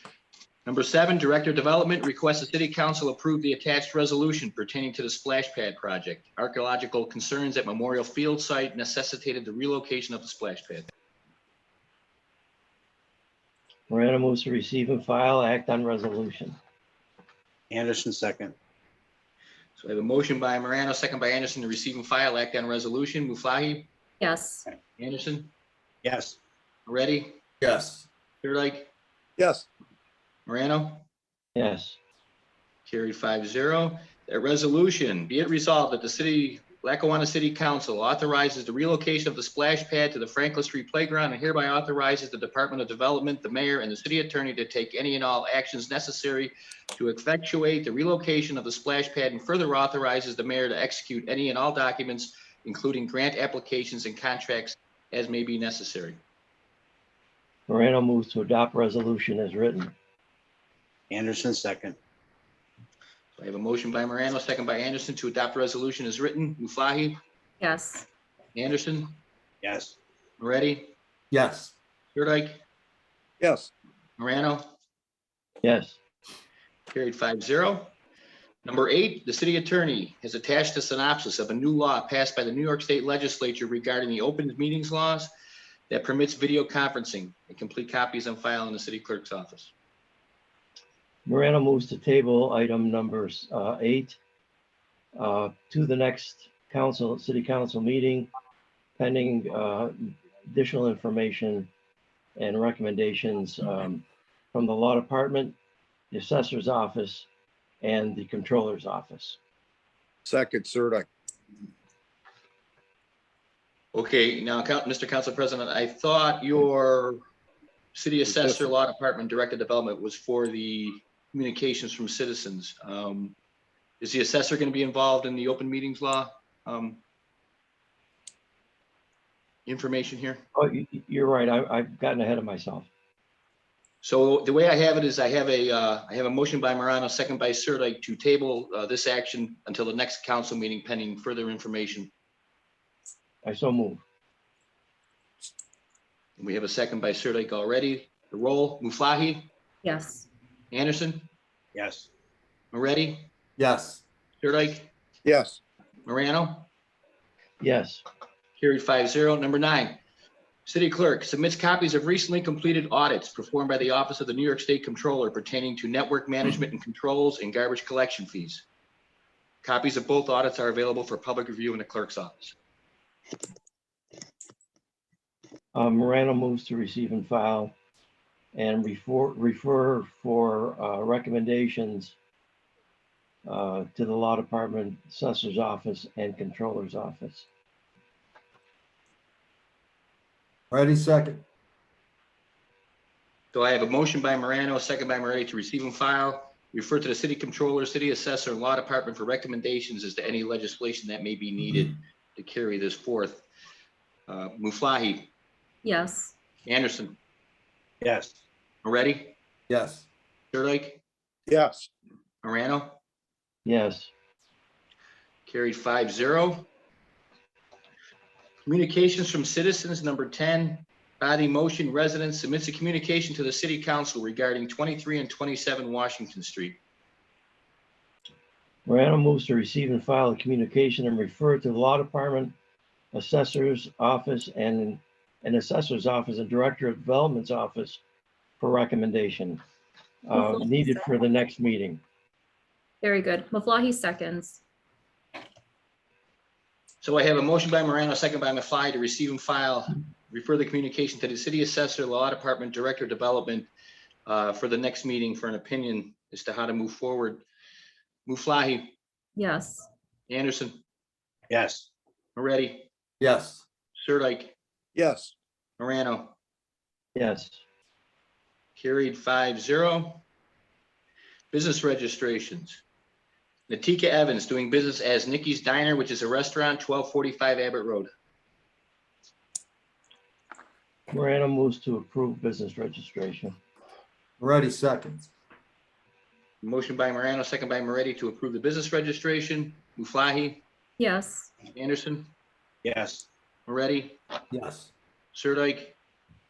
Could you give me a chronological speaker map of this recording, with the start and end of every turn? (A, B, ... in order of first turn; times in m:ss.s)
0:00.7-0:10.9 A
0:13.9-0:16.6 B
0:17.7-0:18.6 C
0:19.8-0:23.9 A
0:24.2-0:24.7 D
0:25.0-0:25.5 A
0:26.0-0:26.4 C
0:26.9-0:27.4 A
0:27.6-0:28.0 E
0:28.4-0:28.9 A
0:29.4-0:29.7 F
0:30.5-0:31.0 A
0:31.6-0:32.0 B
0:32.9-0:56.2 A
0:57.7-0:59.9 B
1:01.1-1:02.0 C
1:03.4-1:07.2 A
1:07.6-1:08.1 D
1:08.6-1:09.1 A
1:09.6-1:10.0 C
1:10.4-1:10.9 A
1:11.3-1:11.7 E
1:12.1-1:12.6 A
1:13.4-1:13.7 F
1:14.2-1:14.7 A
1:15.6-1:16.0 B
1:16.9-1:18.0 A
1:18.6-1:25.3 A
1:25.9-1:29.7 A
1:31.3-1:34.2 B
1:35.2-1:38.3 B
1:39.0-1:41.7 B
1:42.4-1:45.6 B
1:46.1-1:47.3 B
1:47.8-1:49.4 B
1:50.3-1:51.1 F
1:53.9-1:57.2 A
1:57.9-2:03.4 A
1:58.3-1:58.6 F
2:04.0-2:07.0 A
2:09.7-2:10.4 A
2:10.6-2:12.9 B
2:14.0-2:22.1 A
2:23.4-2:24.0 B
2:26.4-2:29.5 A
2:29.8-2:30.3 D
2:30.7-2:31.3 A
2:31.8-2:32.1 C
2:32.7-2:33.3 A
2:33.6-2:33.9 E
2:33.6-2:34.0 F
2:34.4-2:34.9 A
2:35.2-2:35.6 F
2:36.1-2:36.7 A
2:37.6-2:38.0 B
2:38.6-2:40.0 A
2:40.7-2:48.6 A
2:49.6-2:52.6 A
2:55.7-2:57.8 B
2:58.6-3:02.2 B
3:03.4-3:07.5 B
3:10.7-3:11.4 E
3:10.9-3:11.4 F
3:13.5-3:23.4 A
3:24.3-3:25.3 A
3:25.8-3:26.3 D
3:26.7-3:27.2 A
3:28.0-3:28.4 C
3:28.8-3:29.4 A
3:29.7-3:30.0 F
3:30.5-3:31.0 A
3:31.5-3:31.9 F
3:32.4-3:33.0 A
3:33.6-3:34.1 B
3:35.5-3:36.7 A
3:38.7-3:46.8 A
3:48.9-3:52.5 B
3:53.1-3:58.0 B
3:58.6-3:59.6 B
4:00.3-4:02.0 B
4:00.4-4:00.9 D
4:03.0-4:04.6 D
4:07.0-4:13.7 A
4:14.3-4:17.4 A
4:18.3-4:19.0 A
4:19.4-4:19.9 D
4:20.3-4:20.8 A
4:21.5-4:21.9 C
4:22.4-4:22.9 A
4:23.2-4:23.6 E
4:24.0-4:24.6 A
4:25.0-4:25.3 F
4:25.8-4:26.4 A
4:27.2-4:27.6 B
4:28.8-4:30.2 A
4:31.5-4:32.8 A
4:33.7-4:38.1 A
4:41.1-4:43.6 B
4:44.4-4:45.3 E
4:44.6-4:45.2 F
4:46.6-4:50.6 A
4:51.0-4:51.5 D
4:51.7-4:52.3 A
4:52.8-4:53.3 C
4:53.7-4:54.2 A
4:54.5-4:54.8 E
4:55.3-4:56.0 A